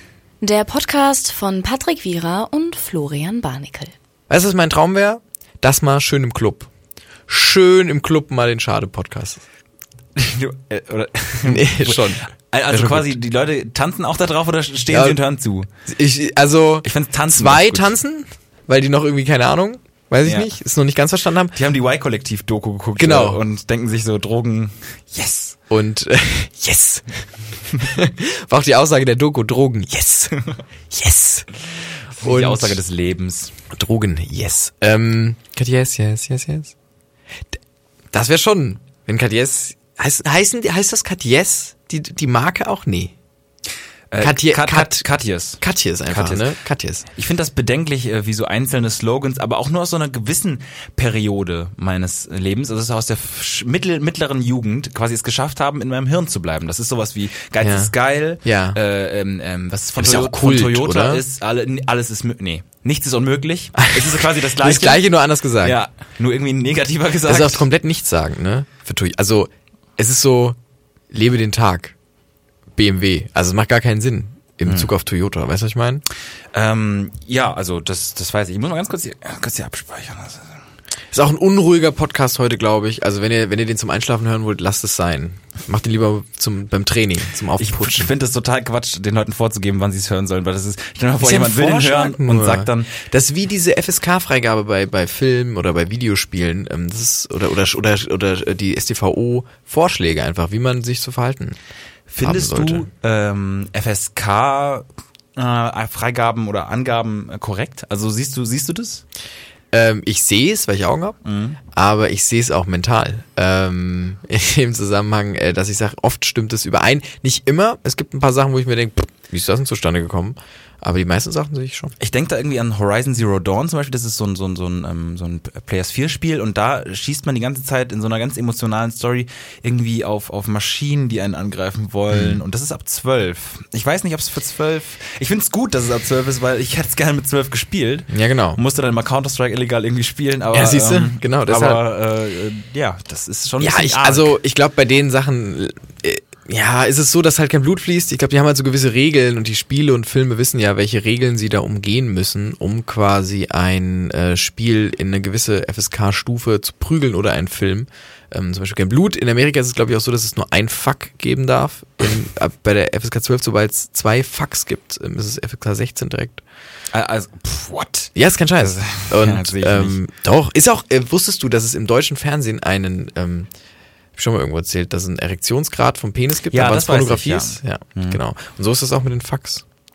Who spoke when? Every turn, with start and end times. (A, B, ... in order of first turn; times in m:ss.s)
0:00.4-0:03.9 A
0:04.3-0:06.7 B
0:07.3-0:09.4 B
0:10.2-0:15.7 C
0:11.4-0:13.2 B
0:14.9-0:15.2 B
0:15.8-0:21.5 B
0:16.8-0:17.9 C
0:20.2-0:20.5 C
0:21.5-0:25.6 C
0:23.0-0:23.4 B
0:25.7-0:30.3 B
0:30.9-0:31.5 B
0:32.1-0:33.5 C
0:32.2-0:32.8 B
0:33.7-0:36.7 B
0:38.1-0:43.1 B
0:44.1-0:46.5 C
0:44.2-0:45.0 B
0:45.6-0:47.0 B
0:47.1-1:05.0 C
0:57.6-0:58.8 B
1:00.0-1:01.2 B
1:03.8-1:05.8 B
1:05.6-1:07.6 C
1:07.3-1:10.6 B
1:11.1-1:11.9 B
1:12.8-1:16.0 B
1:14.6-1:14.9 C
1:16.5-1:20.6 C
1:21.1-1:28.1 B
1:27.6-1:32.9 C
1:31.2-1:41.6 B
1:42.1-1:49.0 C
1:42.2-1:42.9 B
1:49.7-2:01.9 B
1:51.2-1:51.6 C
2:02.0-2:24.3 C
2:12.1-2:12.4 B
2:18.1-2:18.6 B
2:20.5-2:21.8 B
2:23.6-2:46.4 B
2:46.9-2:50.0 C
2:48.1-2:53.5 B
2:54.1-2:59.6 B
2:56.5-2:58.2 C